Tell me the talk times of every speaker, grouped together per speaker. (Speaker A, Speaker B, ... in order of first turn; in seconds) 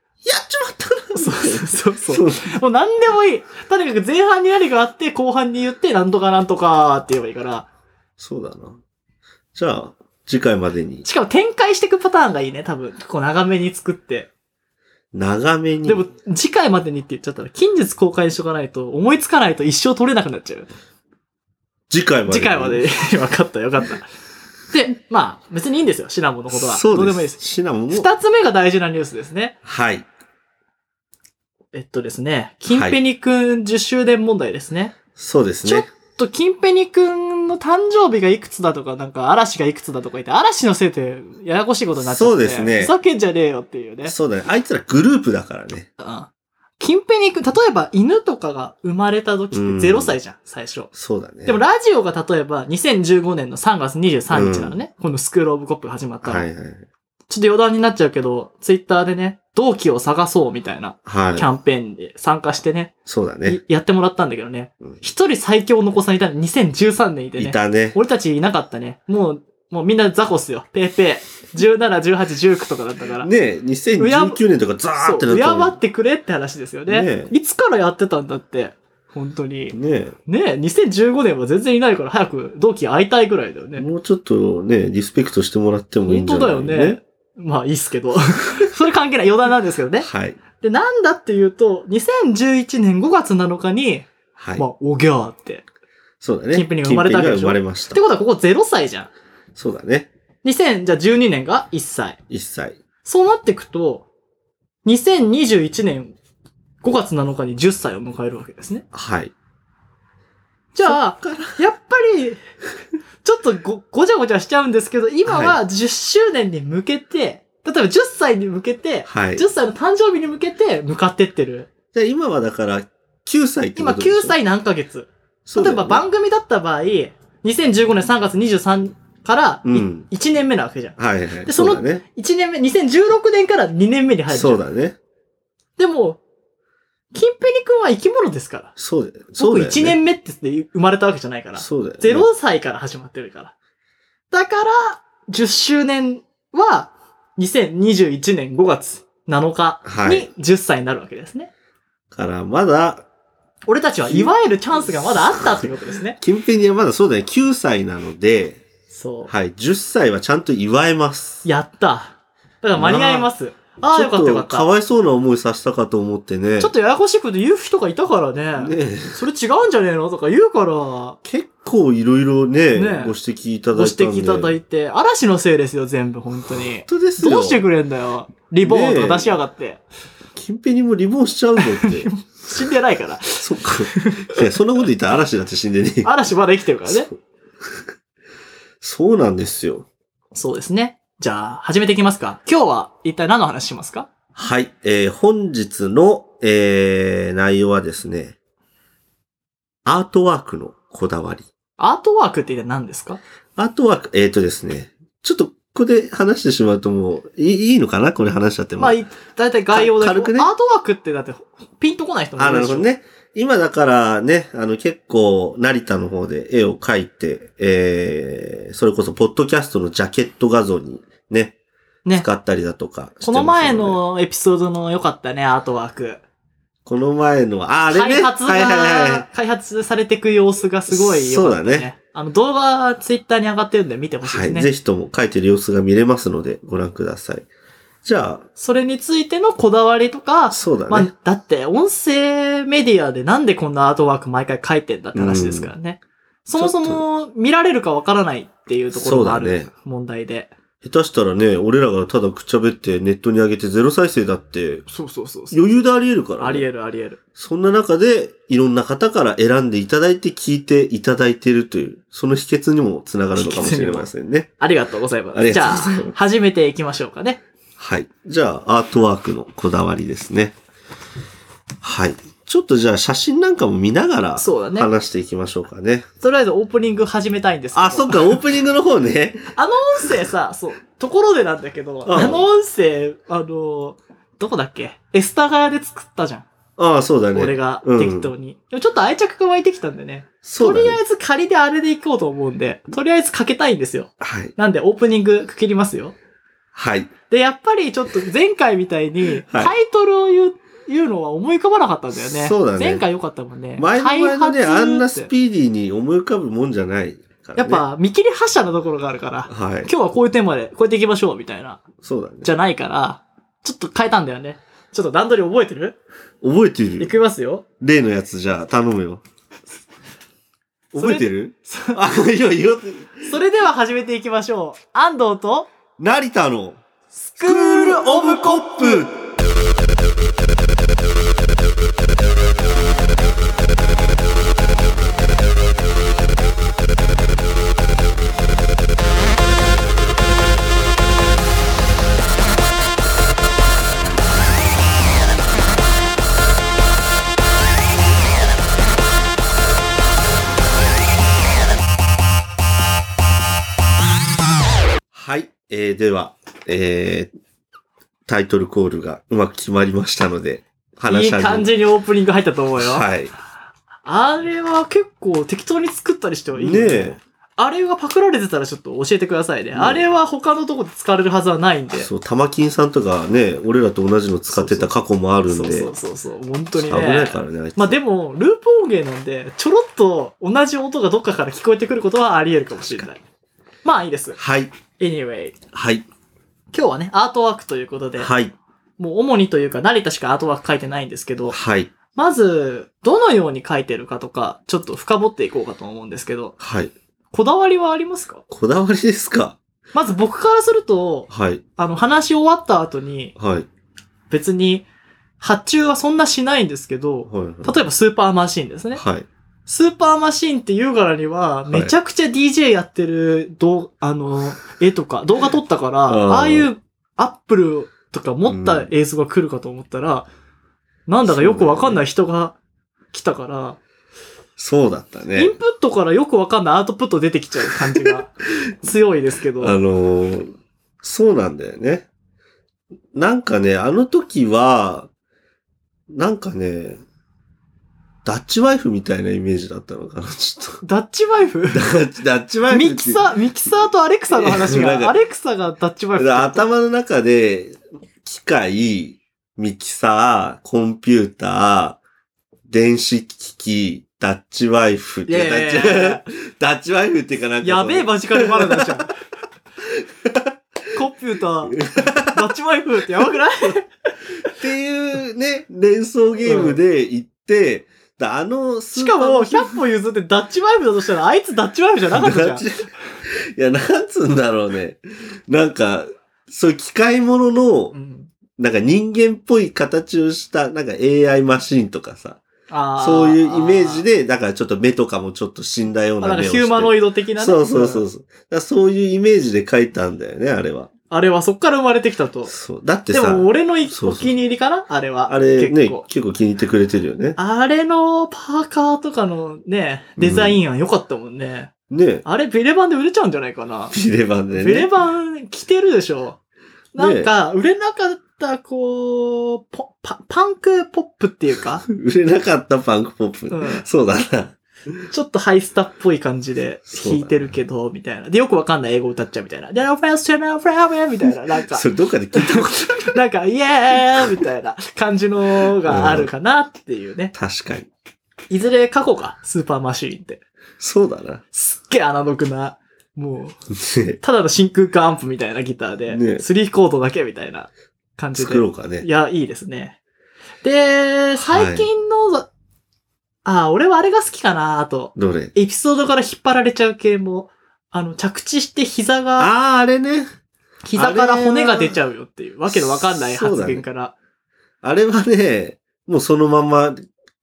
Speaker A: 0.2-2.5, 8.2-8.8, 9.5-11.1, 15.1-16.1, 21.9-22.9, 26.5-28.1, 29.6-30.1, 32.7-33.0, 35.1-35.9, 42.0-43.0, 44.0-45.9, 49.5-50.2, 50.9-51.6, 54.3-54.8, 56.2-56.9, 61.0-61.5, 63.0-63.6, 67.4-68.0, 73.2-75.8, 76.9-77.3, 79.7-80.2, 83.8-87.0, 90.0-90.4, 94.4-94.6, 96.2-98.0, 99.5-100.1, 102.3-102.8, 108.9-109.3, 110.8-111.6, 115.2-115.6, 119.1-119.5, 121.9-124.4, 125.5-126.0, 129.7-130.1, 131.0-132.0, 134.3-135.0, 138.8-140.0, 141.6-142.3, 149.8-150.3, 152.1-153.1, 154.1-154.3, 154.8-158.6, 159.3-161.4, 162.7-163.3, 163.9-166.7, 168.6-169.2, 171.2-174.6, 176.4-177.7, 178.6-179.4, 180.3-182.1, 183.4-186.1, 186.9-187.1, 188.8-189.9, 194.3-198.3, 199.8-201.5, 203.6-209.0, 209.7-210.5, 212.4-221.6, 222.1-224.0, 226.8-229.2, 230.9-231.9, 234.2-237.5, 238.0-238.4, 240.5-241.1, 245.1-245.7, 246.5-247.0, 248.9-249.7, 250.8-254.8, 255.5-256.7, 257.4-264.5, 265.3-266.1, 267.8-270.6, 271.8-276.1, 277.7-279.5, 282.1-282.5, 286.8-288.3, 290.4-291.0, 294.2-294.5, 296.7-297.1, 299.4-299.7, 302.2-303.1, 303.8-307.8, 309.5-309.9, 312.0-312.5, 316.4-317.1, 317.8-319.2, 320.9-323.3, 326.0-326.8, 327.4-329.1, 355.1-357.3, 358.3-361.7, 362.8-363.3, 366.5-367.2, 369.7-370.1, 371.9-375.9, 376.8-378.0, 384.4-384.7, 385.7-386.1, 388.2-388.5, 391.5-391.9, 396.6-396.9, 398.5-399.6, 401.3-401.6, 403.4-403.7, 407.3-407.8, 408.9-409.3, 411.7-411.9, 416.1-416.7, 418.4-418.9, 421.2-422.0, 424.6-425.5, 427.7-428.2, 429.6-430.4, 431.0-432.1, 433.1-435.1, 436.1-437.0, 438.2-440.8, 441.7-443.3, 444.3-445.1, 446.2-452.0, 452.7-459.1, 459.8-460.5, 461.6-462.4, 464.4-469.8, 472.1-477.9, 478.6-482.4, 483.0-490.9, 492.5-494.3, 495.3-497.4, 500.2-500.6, 501.9-502.2, 503.9-504.9, 507.0-507.3, 511.9-514.6, 516.9-517.5, 521.7-523.2, 525.8-526.3, 527.3-527.9, 530.8-531.4, 533.7-534.2, 536.1-536.4, 538.4-539.0, 541.4-541.9, 545.1-545.5, 549.4-550.3, 550.9-552.0, 552.7-553.8, 554.8-557.0
Speaker B: 1.1-7.7, 11.0-14.3, 15.8-20.7, 22.3-24.1, 24.7-29.6, 31.7-35.0, 35.6-44.1, 46.0-50.9, 51.4-56.5, 57.3-62.9, 63.4-73.3, 74.0-74.4, 75.0-83.8, 86.1-95.6, 96.5-99.1, 100.4-102.2, 103.0-104.0, 104.8-106.1, 106.8-108.8, 110.7-112.4, 113.2-121.7, 123.8-134.6, 135.8-136.2, 137.1-138.7, 139.4-143.5, 144.3-151.5, 153.7-156.2, 158.9-159.3, 161.4-164.7, 166.6-171.2, 172.7-173.2, 173.7-179.8, 181.6-184.5, 186.0-187.1, 190.3-194.1, 201.8-203.2, 208.8-212.9, 223.2-226.2, 227.9-234.7, 238.6-250.5, 254.9-255.6, 256.4-257.2, 263.3-267.4, 274.4-274.9, 276.2-278.4, 279.5-286.5, 287.3-296.1, 297.3-305.3, 307.6-311.8, 312.4-316.0, 317.0-317.6, 320.9-322.0, 323.2-325.7, 327.1-329.1, 361.1-363.1, 364.1-372.1, 374.5-374.9, 375.5-383.2, 383.8-384.4, 385.0-385.5, 386.7-388.3, 389.0-391.6, 392.1-396.5, 397.3-398.4, 399.9-403.3, 404.3-404.8, 405.4-409.0, 409.6-420.3, 421.1-422.6, 423.1-423.8, 425.4-428.3, 428.8-429.8, 440.8-441.9, 442.7-446.6, 455.2-456.2, 457.6-459.1, 460.9-464.1, 466.4-466.8, 468.9-472.6, 477.9-478.3, 482.7-484.1, 486.2-488.1, 491.1-492.5, 493.1-496.0, 497.4-501.7, 502.2-503.9, 504.5-506.4, 506.9-511.8, 513.5-513.9, 515.1-527.3, 528.5-530.4, 531.5-533.5, 534.2-540.0, 540.6-542.5, 543.4-549.5, 550.8-554.1